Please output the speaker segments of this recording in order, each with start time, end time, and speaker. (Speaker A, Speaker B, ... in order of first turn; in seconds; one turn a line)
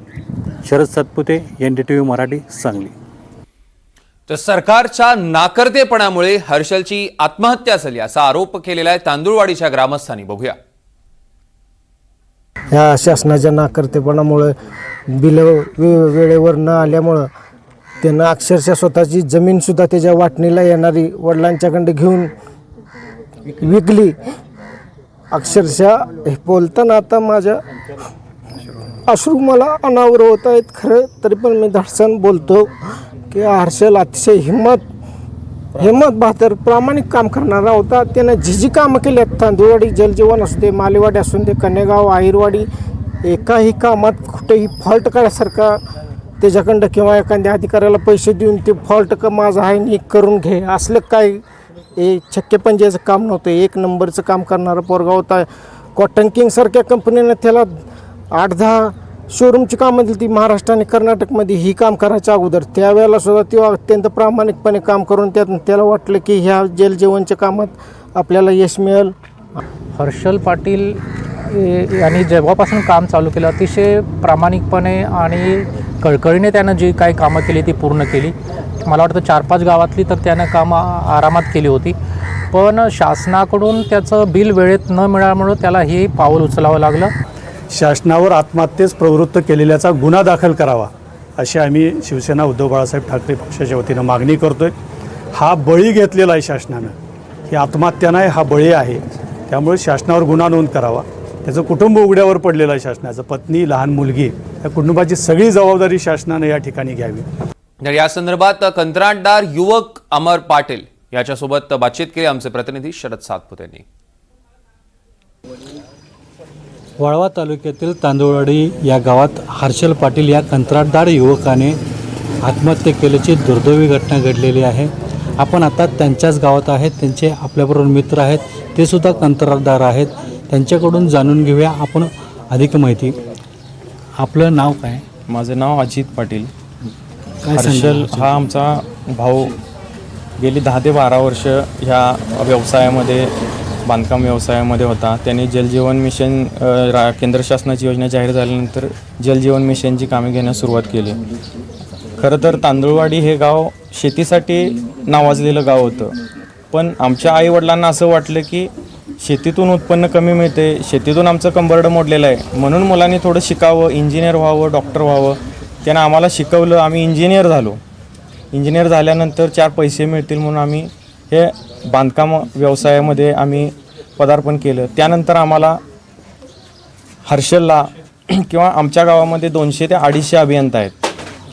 Speaker A: 0.6-3.0
Speaker B: 4.3-10.6
Speaker C: 12.7-14.5
Speaker C: 15.1-17.3
Speaker C: 18.0-22.3
Speaker C: 23.5-24.2
Speaker C: 25.3-27.6
Speaker C: 29.1-32.8
Speaker C: 33.3-34.9
Speaker C: 35.8-42.7
Speaker C: 43.2-45.8
Speaker C: 46.4-51.4
Speaker C: 52.0-57.7
Speaker C: 58.3-69.6
Speaker D: 70.0-78.3
Speaker D: 78.8-82.0
Speaker D: 82.5-87.1
Speaker E: 87.7-94.7
Speaker E: 95.3-96.9
Speaker E: 97.5-107.2
Speaker B: 107.8-113.8
Speaker A: 117.0-121.8
Speaker A: 122.4-133.2
Speaker A: 134.2-135.0
Speaker F: 135.3-136.5
Speaker A: 137.4-138.3
Speaker F: 137.5-139.5
Speaker F: 140.4-143.3
Speaker F: 143.9-151.2
Speaker F: 152.2-156.1
Speaker F: 156.7-158.7
Speaker F: 159.2-167.8
Speaker F: 168.5-175.8
Speaker F: 177.3-177.9
Speaker F: 178.4-180.9